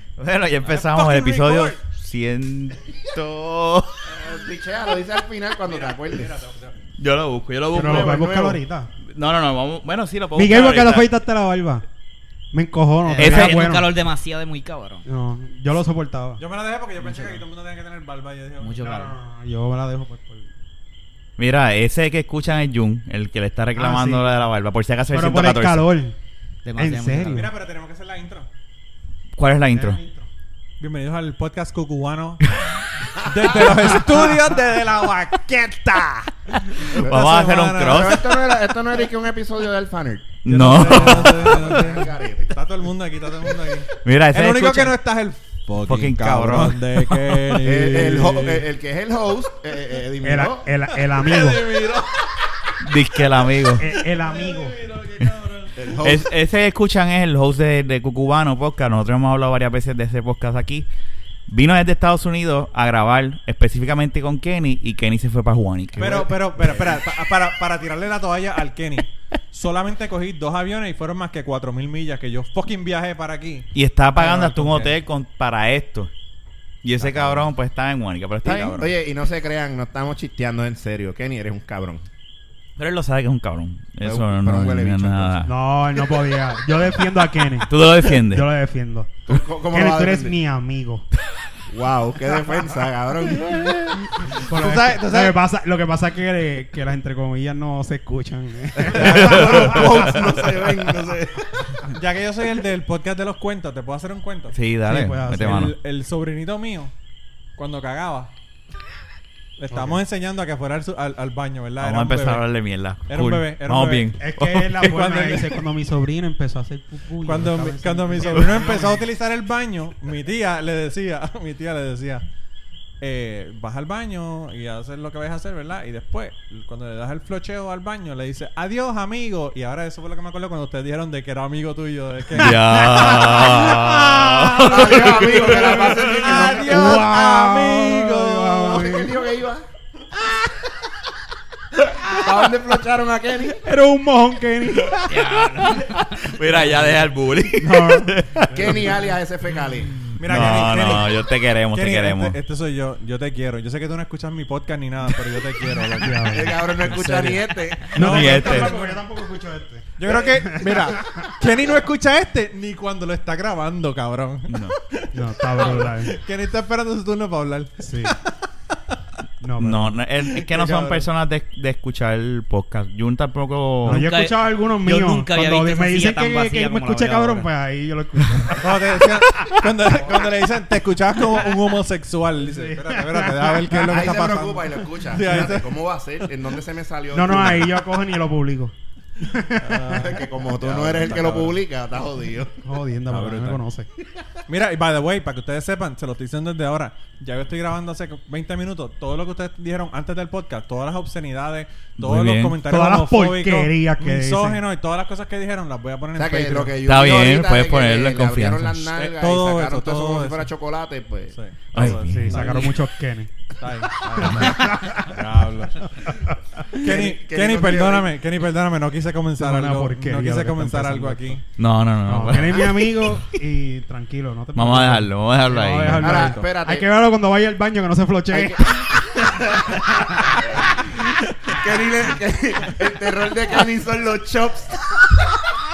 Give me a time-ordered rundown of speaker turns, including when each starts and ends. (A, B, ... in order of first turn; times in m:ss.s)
0:00.2-0:04.0 A
0:00.7-0:01.8 B
0:04.1-0:04.4 B
0:04.2-0:06.3 C
0:05.7-0:06.8 B
0:07.0-0:08.4 A
0:07.7-0:08.9 D
0:07.7-0:08.6 C
0:09.0-0:11.1 A
0:10.4-0:11.8 D
0:12.5-0:13.9 D
0:13.0-0:15.0 E
0:13.2-0:13.7 A
0:15.0-0:16.4 D
0:16.4-0:18.8 B
0:17.0-0:17.4 E
0:18.6-0:19.1 E
0:18.8-0:20.5 D
0:21.4-0:25.9 A
0:23.8-0:24.3 D
0:25.1-0:26.2 D
0:26.6-0:27.5 E
0:26.8-0:27.5 D
0:27.3-0:28.5 B
0:29.4-0:30.0 A
0:29.8-0:30.3 D
0:30.8-0:32.4 B
0:33.2-0:35.7 B
0:35.5-0:36.3 D
0:36.8-0:38.3 B
0:36.9-0:38.4 A
0:37.0-0:42.6 C
0:40.4-0:41.8 A
0:40.5-0:48.6 B
0:44.0-0:45.0 A
0:45.8-0:47.7 A
0:47.6-0:50.7 C
0:50.2-0:51.8 D
0:50.9-0:52.3 B
0:52.8-0:53.8 A
0:53.7-0:56.0 B
0:53.8-0:54.8 D
0:55.8-0:56.3 C
0:56.0-1:00.9 A
1:01.5-1:06.3 A
1:06.0-1:15.0 B
1:06.0-1:06.7 C
1:13.7-1:16.1 A
1:16.8-1:18.9 A
1:17.0-1:17.5 C
1:18.4-1:22.0 C
1:22.8-1:25.5 A
1:24.0-1:25.5 C
1:25.4-1:29.1 D
1:27.7-1:28.5 A
1:29.3-1:30.4 C
1:29.7-1:31.0 D
1:31.7-1:33.7 C
1:33.9-1:35.4 B
1:34.3-1:40.1 D
1:38.8-1:41.8 C
1:38.9-1:40.3 A
1:41.8-1:44.6 B
1:44.5-1:45.7 A
1:44.8-1:45.6 D
1:45.4-1:46.9 B
1:47.6-1:48.3 B
1:49.6-1:52.4 B
1:51.8-1:55.4 A
1:53.1-1:54.2 B
1:54.2-1:59.1 D
1:54.8-1:55.5 B
1:57.2-2:02.2 B
2:03.0-2:18.7 B
2:12.3-2:15.1 A
2:12.6-2:19.1 D
2:14.6-2:17.0 C
2:18.6-2:19.6 C
2:22.0-2:23.6 C
2:23.6-2:25.3 D
2:25.1-2:26.2 E
2:26.1-2:28.8 A
2:27.6-2:28.2 D
2:28.5-2:30.0 C
2:30.2-2:31.2 B
2:30.2-2:32.4 A
2:31.7-2:37.2 B
2:36.0-2:41.3 D
2:36.3-2:38.0 C
2:37.9-2:38.8 A
2:37.9-2:38.9 B
2:40.0-2:48.3 B
2:44.5-2:44.8 A
2:45.1-2:46.2 D
2:47.8-2:48.2 D
2:49.4-2:50.0 D
2:49.6-2:54.1 A
2:50.3-2:51.1 B
2:53.8-2:59.6 D
2:53.9-2:57.5 E
2:58.5-3:05.7 B
3:02.4-3:04.2 D
3:03.9-3:07.8 C
3:05.2-3:05.5 D
3:07.1-3:10.2 D
3:09.6-3:11.6 B
3:09.9-3:12.6 C
3:12.6-3:13.9 D
3:13.1-3:13.6 B
3:14.0-3:14.3 C
3:14.5-3:26.8 B
3:22.0-3:22.6 A
3:22.7-3:24.6 D
3:26.2-3:31.4 C
3:26.8-3:29.0 A
3:29.2-3:30.5 B
3:31.3-3:32.8 B
3:31.7-3:32.7 A
3:32.1-3:33.4 D
3:33.5-3:36.0 B
3:34.1-3:35.1 D
3:36.0-3:36.3 D
3:36.8-3:41.4 B
3:36.8-3:38.1 C
3:39.4-3:41.4 D
3:41.6-3:43.1 A
3:42.1-3:50.6 D
3:44.6-3:46.1 A
3:45.9-3:46.5 B
3:46.0-3:46.9 C
3:48.3-3:49.9 C
3:50.4-3:50.9 C
3:51.4-3:55.4 C